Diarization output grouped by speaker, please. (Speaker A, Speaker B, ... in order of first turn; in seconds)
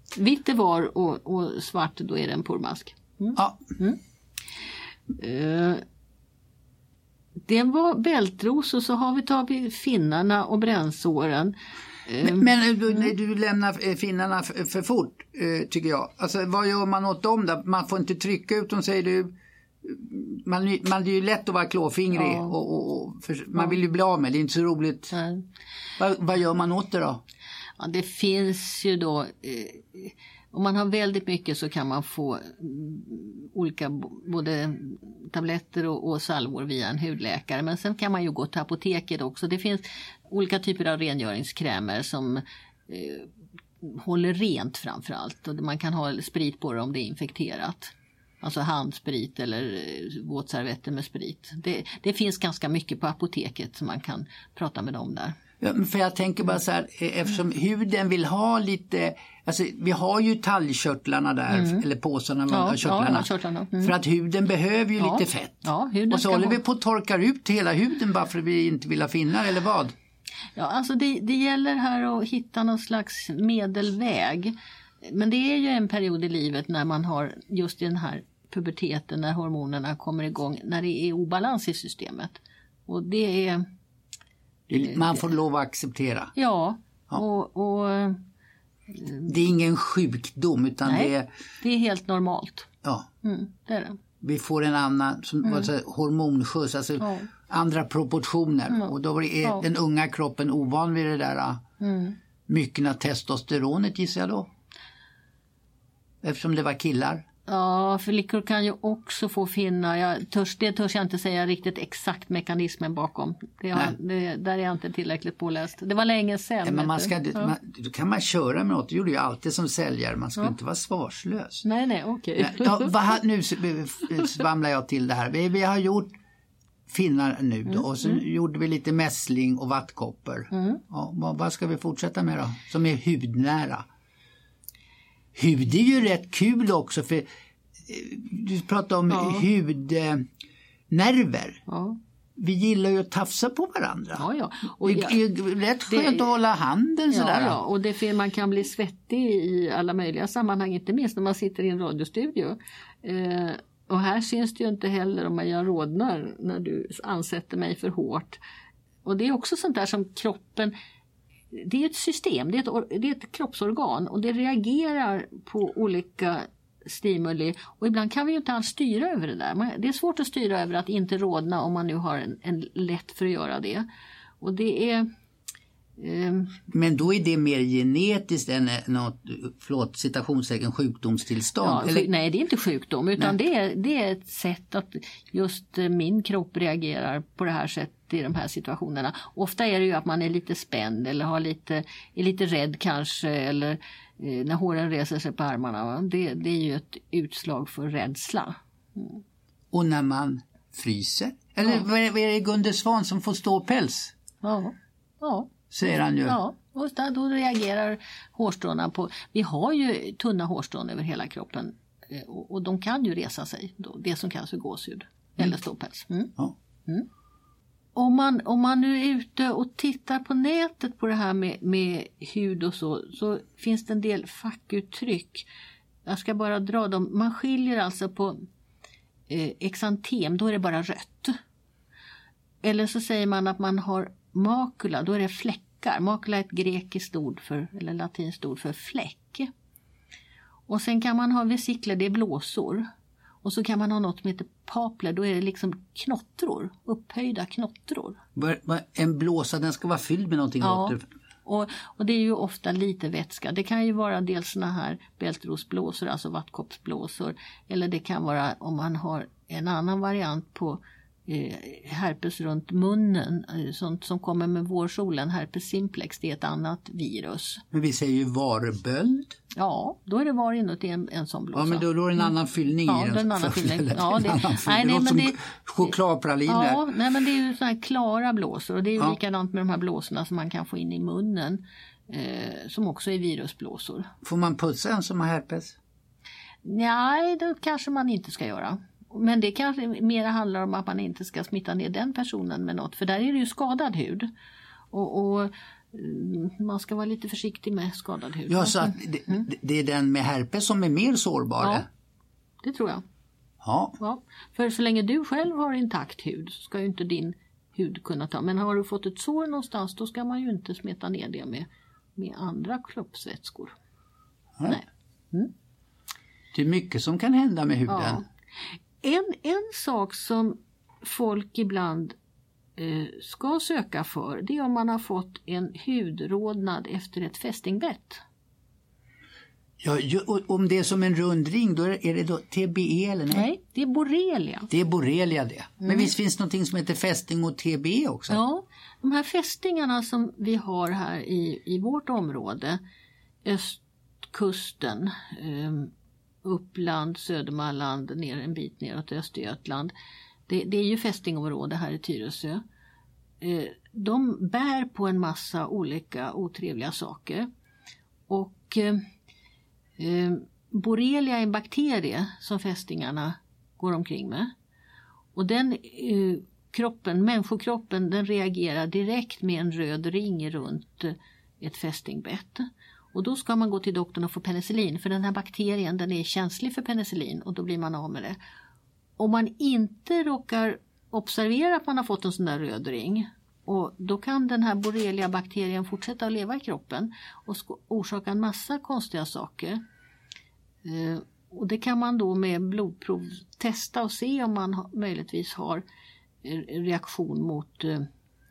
Speaker A: 0.1-4.0, 5.2-5.8, 7.5-11.6, 12.1-12.5, 22.1-22.5, 25.1-25.4, 27.8-43.3, 43.8-55.4, 61.5-61.8, 62.5-63.9, 65.0-66.6, 70.6-83.7, 86.3-88.2, 88.9-89.3, 90.9-92.7, 93.2-94.0, 97.0-97.3, 101.8-102.2, 107.5-117.5, 121.6-122.9, 127.7-128.2, 130.5-130.8, 139.1-139.4, 141.7-142.0, 144.2-145.2, 145.9-146.3, 147.1-158.4, 159.1-160.7, 161.5-173.9, 174.4-175.1, 176.0-176.6, 181.6-199.2, 204.4-205.5, 206.3-216.3, 218.0-225.5, 226.1-228.4, 229.3-231.3, 232.6-239.5, 240.7-242.9, 243.4-248.2, 250.6-267.6, 269.5-272.3, 272.9-275.9, 276.5-284.1, 286.6-294.3, 294.9-299.4, 302.6-303.0, 304.0-313.8, 314.7-315.5, 317.9-318.2, 319.0-322.2, 322.8-328.2, 333.3-334.7, 335.8-336.1, 338.3-342.8, 343.4-345.9, 346.4-349.9, 350.5-352.6, 353.4-357.5, 358.3-359.0, 360.0-364.5, 365.4-378.4, 379.2-389.8, 390.8-395.8, 396.4-398.1
Speaker B: 3.4-3.6, 12.2-25.1, 26.0-27.2, 55.6-63.3, 63.8-69.9, 84.7-86.3, 89.3-91.3, 94.2-101.6, 102.5-104.5, 106.2-107.2, 116.6-121.7, 122.4-126.1, 126.9-133.8, 135.3-137.3, 137.9-140.3, 140.9-141.6, 142.4-144.2, 144.8-147.6, 176.7-182.1, 199.7-204.1, 205.7-206.4, 248.4-251.1, 267.7-269.4, 271.5-276.8, 284.2-285.8, 298.5-301.9, 303.6-304.0, 316.5-318.2, 329.8-333.5, 334.7-338.4